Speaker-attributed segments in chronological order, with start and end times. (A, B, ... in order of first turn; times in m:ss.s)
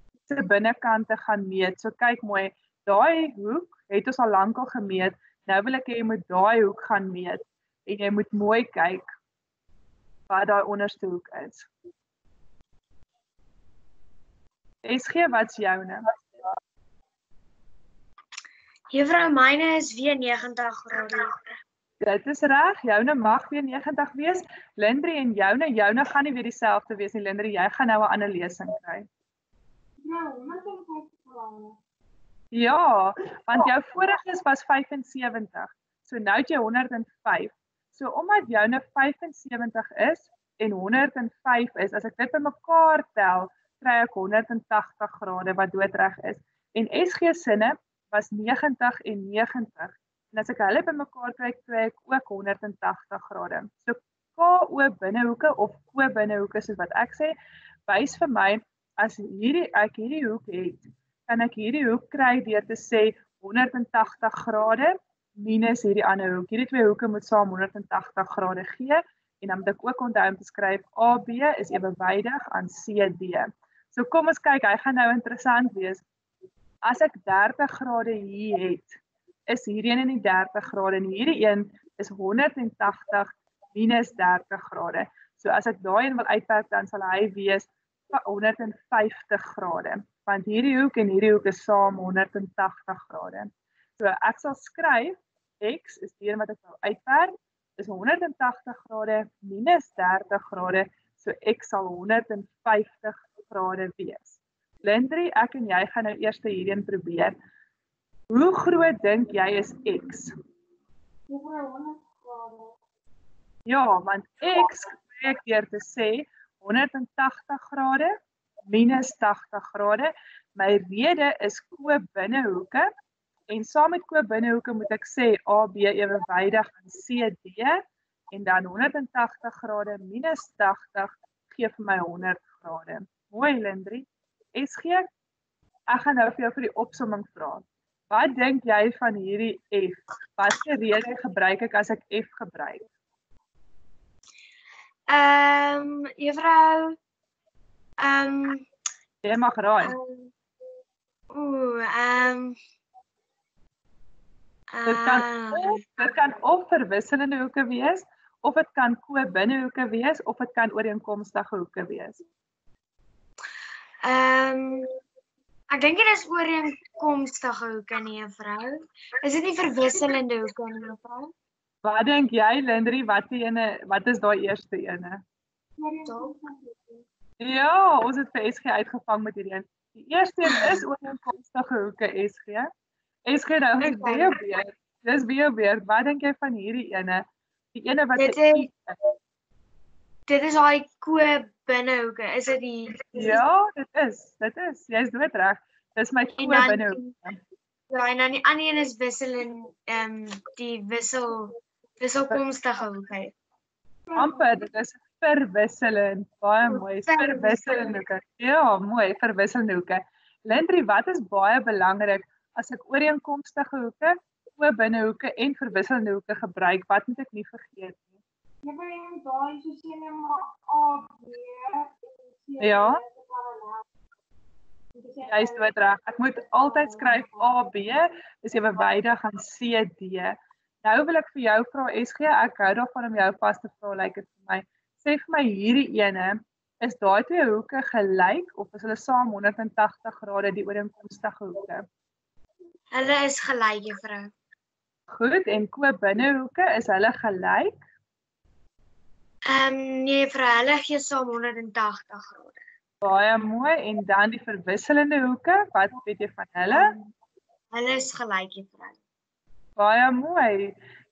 0:00.3-0:09.1 A
0:10.3-0:11.7 A
0:14.8-0:16.0 A
0:18.9-0:21.3 B
0:22.0-0:29.1 A
0:30.0-0:31.8 C
0:32.5-0:57.3 A
0:57.9-1:16.0 A
1:16.8-1:47.4 A
1:48.3-1:50.3 A
1:51.3-1:52.8 C
1:53.7-1:58.1 A
1:58.6-2:02.9 A
2:03.5-2:15.0 A
2:15.9-2:22.9 A
2:25.1-2:27.0 B
2:28.0-2:28.7 B
2:29.2-2:30.0 A
2:29.8-2:30.3 B
2:31.3-2:32.6 B
2:34.7-2:35.8 B
2:34.8-2:42.2 A
2:44.0-2:44.9 B
2:45.7-2:51.3 B
2:51.8-2:55.2 A
2:55.8-2:57.0 C
2:57.4-3:02.7 A
3:00.5-3:00.8 B
3:03.3-3:08.7 A
3:03.8-3:04.4 B
3:08.2-3:08.7 B
3:10.3-3:13.4 B
3:13.1-3:17.4 A
3:16.4-3:17.1 B
3:17.9-3:23.3 B
3:24.1-3:24.4 C
3:24.1-3:38.1 A
3:26.7-3:28.0 B
3:38.6-3:43.8 C
3:42.6-3:43.0 A
3:44.9-3:45.7 C
3:45.3-4:01.8 A
3:46.5-3:47.5 C
4:02.9-4:04.3 B
4:05.1-4:07.8 A
4:09.5-4:12.6 B
4:13.0-4:16.9 A
4:16.7-4:17.1 B
4:17.7-4:19.0 B
4:19.8-4:20.8 A